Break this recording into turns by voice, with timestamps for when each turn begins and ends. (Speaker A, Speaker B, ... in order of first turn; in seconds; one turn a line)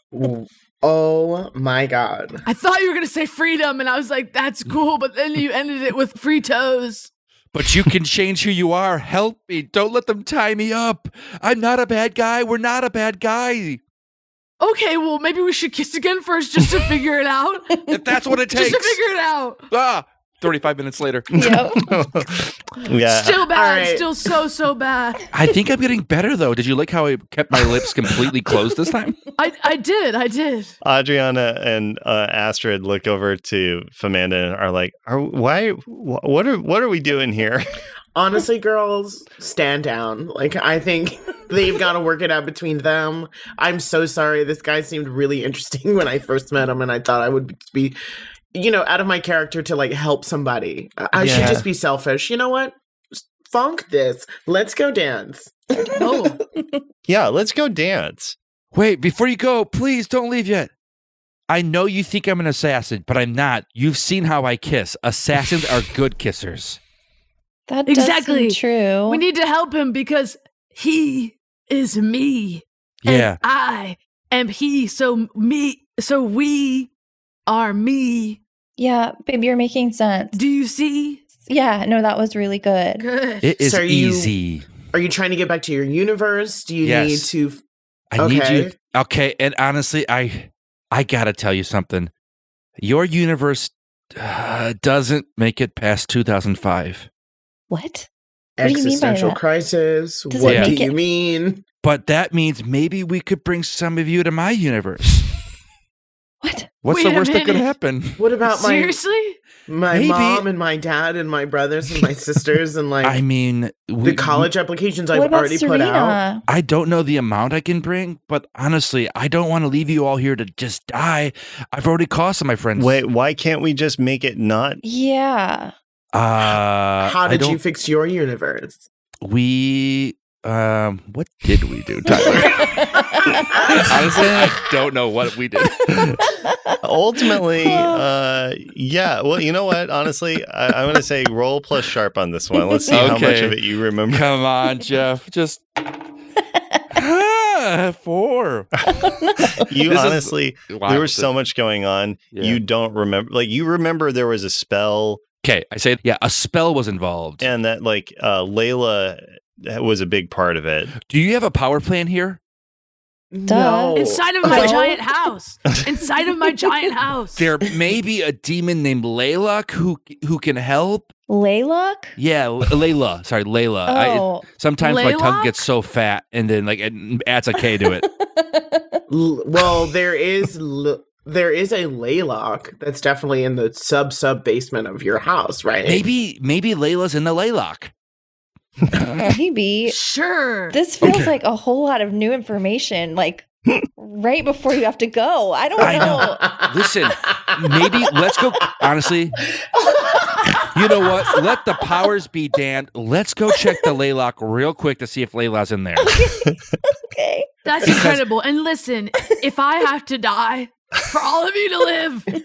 Speaker A: 0.1-2.4
Speaker B: 2.5-7.1
Speaker C: 7.5-13.8
Speaker B: 14.6-17.9
Speaker C: 17.9-19.0
Speaker B: 18.5-19.6
Speaker C: 19.7-21.3
Speaker D: 21.3-22.0
Speaker E: 21.3-23.5
Speaker B: 23.0-25.2
Speaker A: 23.5-24.1
Speaker C: 25.3-29.2
Speaker B: 29.4-30.7
Speaker E: 30.8-37.7
Speaker A: 38.1-48.0
Speaker A: 48.5-56.4
Speaker E: 51.1-51.7
Speaker B: 56.0-56.4
Speaker E: 57.1-58.4
Speaker C: 58.7-60.7
Speaker C: 61.5-66.8
Speaker D: 67.7-69.2
Speaker B: 67.9-76.9
Speaker C: 73.0-73.4
Speaker B: 77.5-78.4
Speaker D: 78.8-80.4
Speaker B: 80.3-81.2
Speaker D: 81.5-83.1
Speaker B: 83.0-83.5
Speaker C: 83.4-84.7
Speaker A: 83.6-84.3
Speaker A: 84.9-87.6
Speaker C: 86.8-87.3
Speaker C: 88.1-92.1
Speaker A: 88.2-88.7
Speaker C: 92.8-97.1
Speaker D: 97.7-98.1
Speaker A: 98.6-101.6
Speaker D: 98.6-99.4
Speaker D: 100.3-101.0
Speaker C: 100.4-100.7
Speaker C: 101.8-105.3
Speaker D: 106.4-106.7
Speaker C: 106.8-108.2
Speaker B: 106.9-107.7
Speaker A: 108.2-109.0
Speaker B: 108.5-109.4
Speaker A: 109.7-113.2
Speaker C: 109.9-110.5
Speaker C: 113.0-114.5
Speaker A: 114.0-116.2
Speaker D: 115.1-116.4
Speaker C: 116.5-123.0
Speaker E: 122.8-124.8
Speaker D: 124.8-125.7
Speaker C: 126.1-127.6
Speaker A: 127.0-128.9
Speaker C: 129.2-132.7
Speaker D: 132.1-133.5
Speaker C: 133.7-136.2
Speaker D: 136.2-136.7
Speaker E: 136.8-144.3
Speaker D: 137.6-138.1
Speaker D: 142.6-143.0
Speaker C: 142.9-143.6
Speaker C: 144.1-145.6
Speaker D: 146.4-147.0
Speaker C: 146.9-148.7
Speaker D: 148.9-149.6
Speaker E: 149.5-155.2
Speaker C: 149.9-151.3
Speaker C: 152.3-152.6
Speaker C: 155.4-157.5
Speaker E: 157.4-160.9
Speaker C: 161.0-162.4
Speaker A: 163.3-164.7
Speaker D: 163.5-165.0
Speaker B: 164.0-167.4
Speaker C: 167.4-171.1
Speaker D: 171.3-172.2
Speaker C: 172.2-178.1
Speaker D: 173.9-174.4
Speaker B: 174.8-175.6
Speaker D: 177.7-179.0
Speaker A: 179.1-186.0
Speaker C: 185.8-187.9
Speaker D: 189.2-190.0
Speaker B: 189.9-190.8
Speaker D: 190.7-196.4
Speaker C: 191.0-191.3
Speaker A: 195.8-198.4
Speaker C: 195.8-199.4
Speaker A: 199.6-200.7
Speaker C: 200.7-206.2
Speaker D: 206.0-207.5
Speaker B: 207.7-212.3
Speaker C: 207.8-208.2